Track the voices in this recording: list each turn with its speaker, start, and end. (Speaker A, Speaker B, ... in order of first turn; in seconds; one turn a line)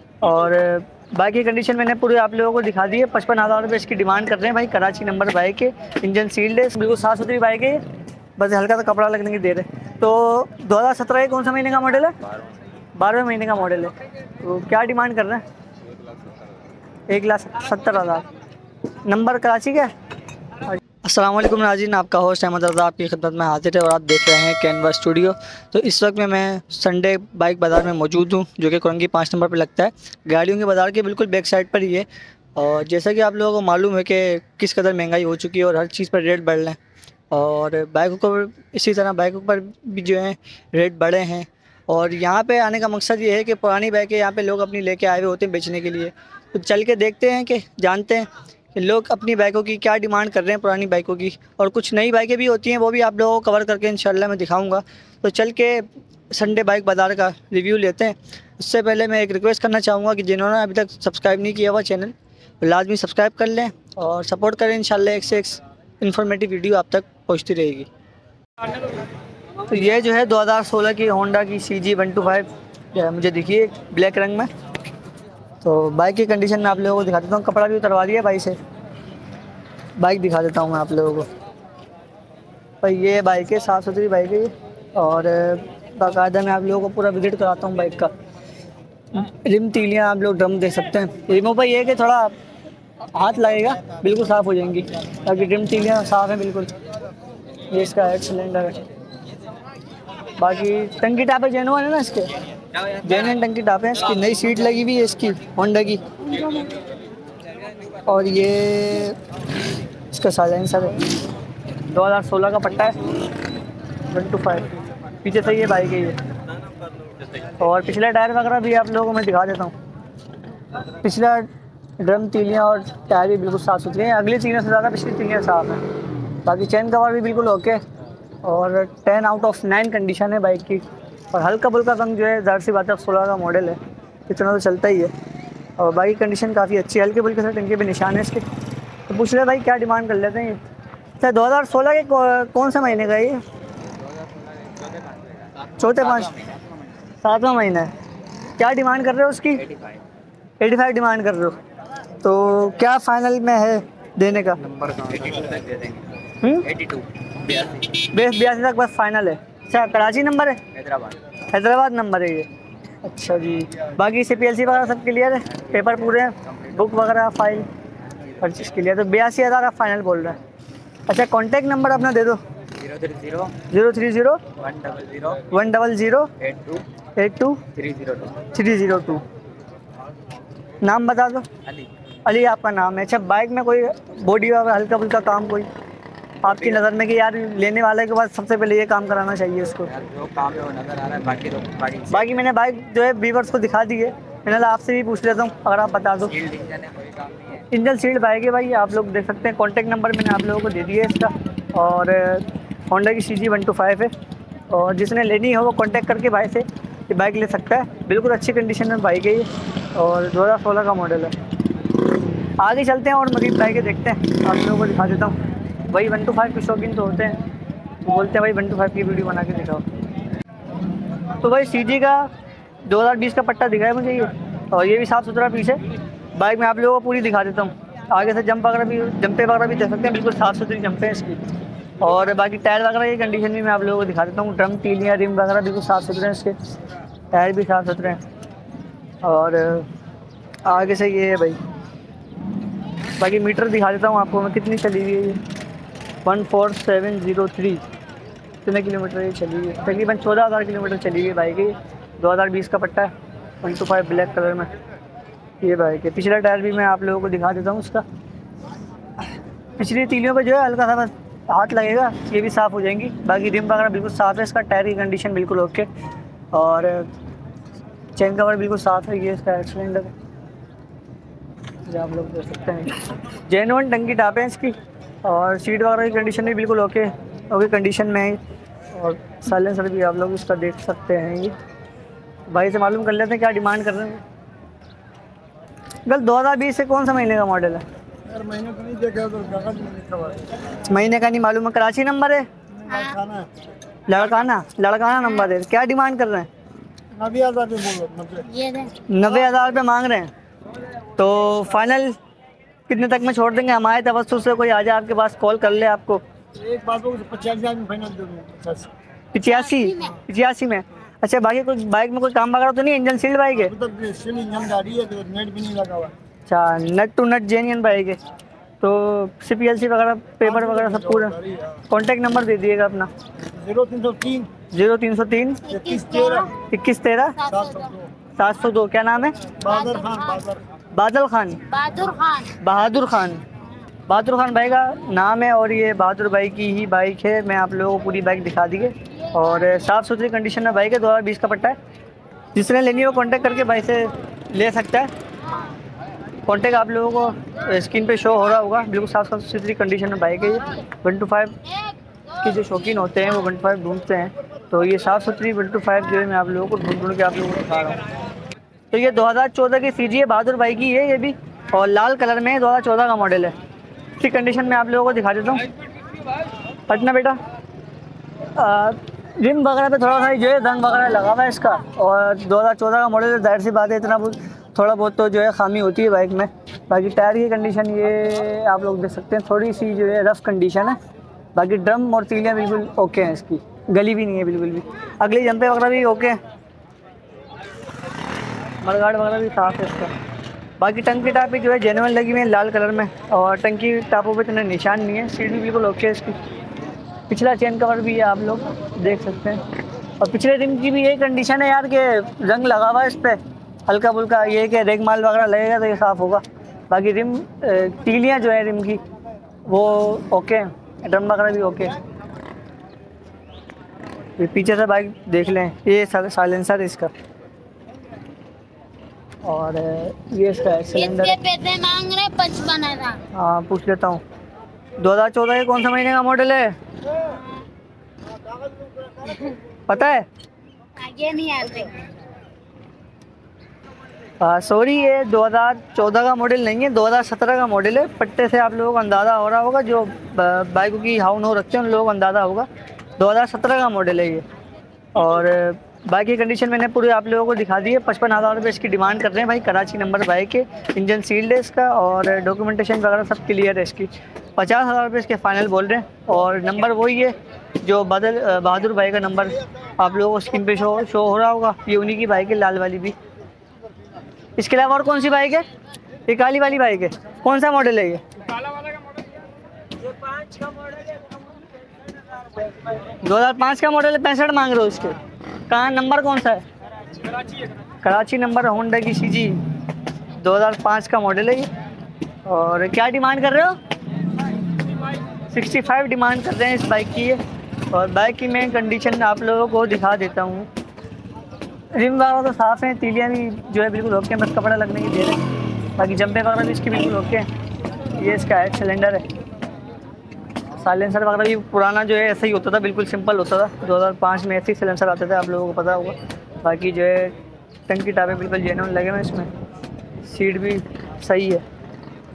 Speaker A: 0.2-7.8
Speaker A: 8.4-12.1
Speaker A: 13.0-15.4
Speaker A: 17.1-18.2
Speaker A: 19.1-19.9
Speaker A: 20.7-36.8
Speaker A: 37.3-67.9
Speaker A: 69.6-74.5
Speaker A: 75.6-78.6
Speaker A: 80.0-81.3
Speaker A: 82.8-88.1
Speaker A: 89.1-92.3
Speaker A: 93.1-96.7
Speaker A: 97.7-98.8
Speaker A: 100.4-102.3
Speaker A: 103.0-106.0
Speaker A: 108.0-109.2
Speaker A: 110.1-111.0
Speaker A: 111.9-113.0
Speaker A: 114.1-114.7
Speaker A: 115.2-116.2
Speaker A: 117.6-119.7
Speaker A: 121.0-125.9
Speaker A: 126.4-127.8
Speaker A: 128.4-135.1
Speaker A: 135.8-138.4
Speaker A: 139.1-140.6
Speaker A: 141.2-143.4
Speaker A: 145.8-146.4
Speaker A: 147.2-147.9
Speaker A: 148.6-149.7
Speaker A: 150.6-151.6
Speaker A: 152.2-154.7
Speaker B: 154.7-156.0
Speaker A: 156.4-156.8
Speaker B: 156.8-157.6
Speaker A: 157.9-160.6
Speaker A: 161.5-162.5
Speaker A: 163.0-167.7
Speaker A: 168.4-170.4
Speaker A: 171.1-172.4
Speaker B: 172.8-173.6
Speaker A: 173.6-174.4
Speaker B: 174.7-175.4
Speaker A: 175.4-176.3
Speaker B: 176.4-176.8
Speaker A: 177.2-177.8
Speaker B: 177.8-178.4
Speaker A: 178.4-179.2
Speaker A: 180.8-181.5
Speaker A: 182.2-185.7
Speaker A: 186.4-189.9
Speaker B: 189.9-192.1
Speaker A: 192.1-196.5
Speaker B: 196.4-197.4
Speaker A: 197.6-204.1
Speaker A: 204.7-211.3
Speaker A: 212.6-217.4
Speaker A: 218.0-219.8
Speaker A: 221.4-222.3
Speaker A: 222.9-225.8
Speaker A: 226.4-231.4
Speaker A: 232.0-236.5
Speaker A: 237.3-238.2
Speaker A: 239.2-239.9
Speaker A: 240.7-241.6
Speaker A: 243.2-245.4
Speaker A: 246.2-247.8
Speaker A: 248.7-254.7
Speaker A: 255.6-258.0
Speaker A: 259.8-265.9
Speaker A: 266.5-267.1
Speaker A: 268.2-270.1
Speaker A: 271.9-278.4
Speaker A: 278.9-281.6
Speaker A: 282.5-284.2
Speaker A: 286.1-287.8
Speaker C: 288.3-290.4
Speaker A: 290.8-292.4
Speaker D: 292.9-293.2
Speaker C: 293.1-293.5
Speaker A: 294.1-296.5
Speaker C: 297.1-298.5
Speaker D: 298.4-298.9
Speaker A: 299.1-300.3
Speaker A: 301.2-302.2
Speaker A: 302.9-306.2
Speaker C: 306.6-308.9
Speaker A: 309.3-313.8
Speaker D: 309.8-310.1
Speaker C: 313.9-316.1
Speaker A: 316.5-318.2
Speaker A: 318.8-323.1
Speaker C: 323.5-324.5
Speaker A: 324.7-325.7
Speaker D: 325.6-326.5
Speaker A: 326.7-327.4
Speaker D: 327.4-327.9
Speaker A: 328.4-329.5
Speaker D: 329.6-330.5
Speaker C: 329.9-330.6
Speaker A: 330.9-331.6
Speaker D: 331.7-332.5
Speaker A: 332.6-333.4
Speaker A: 334.1-341.8
Speaker A: 342.5-345.1
Speaker A: 346.4-351.6
Speaker A: 352.4-358.0
Speaker A: 358.9-363.6
Speaker A: 364.2-365.7
Speaker A: 366.9-367.4
Speaker A: 368.5-381.0
Speaker A: 381.6-386.4
Speaker A: 388.8-390.1
Speaker A: 390.8-396.4
Speaker A: 397.3-399.6
Speaker A: 400.2-409.0
Speaker A: 409.7-411.9
Speaker A: 414.4-417.1
Speaker A: 419.4-421.4
Speaker D: 420.9-423.2
Speaker A: 423.3-424.2
Speaker A: 425.0-426.7
Speaker D: 427.2-427.6
Speaker D: 429.2-429.6
Speaker A: 429.9-430.2
Speaker D: 430.9-432.0
Speaker A: 434.4-442.7
Speaker A: 443.2-444.4
Speaker A: 445.1-463.2
Speaker A: 464.6-465.7
Speaker A: 466.2-468.2
Speaker A: 473.2-475.2
Speaker A: 475.7-476.6
Speaker A: 478.0-479.6
Speaker A: 480.4-481.7
Speaker A: 482.4-483.8
Speaker A: 485.5-490.7
Speaker A: 491.9-495.4
Speaker A: 496.0-497.5
Speaker A: 498.2-499.2
Speaker A: 500.8-507.4
Speaker A: 507.9-509.5
Speaker A: 510.2-511.6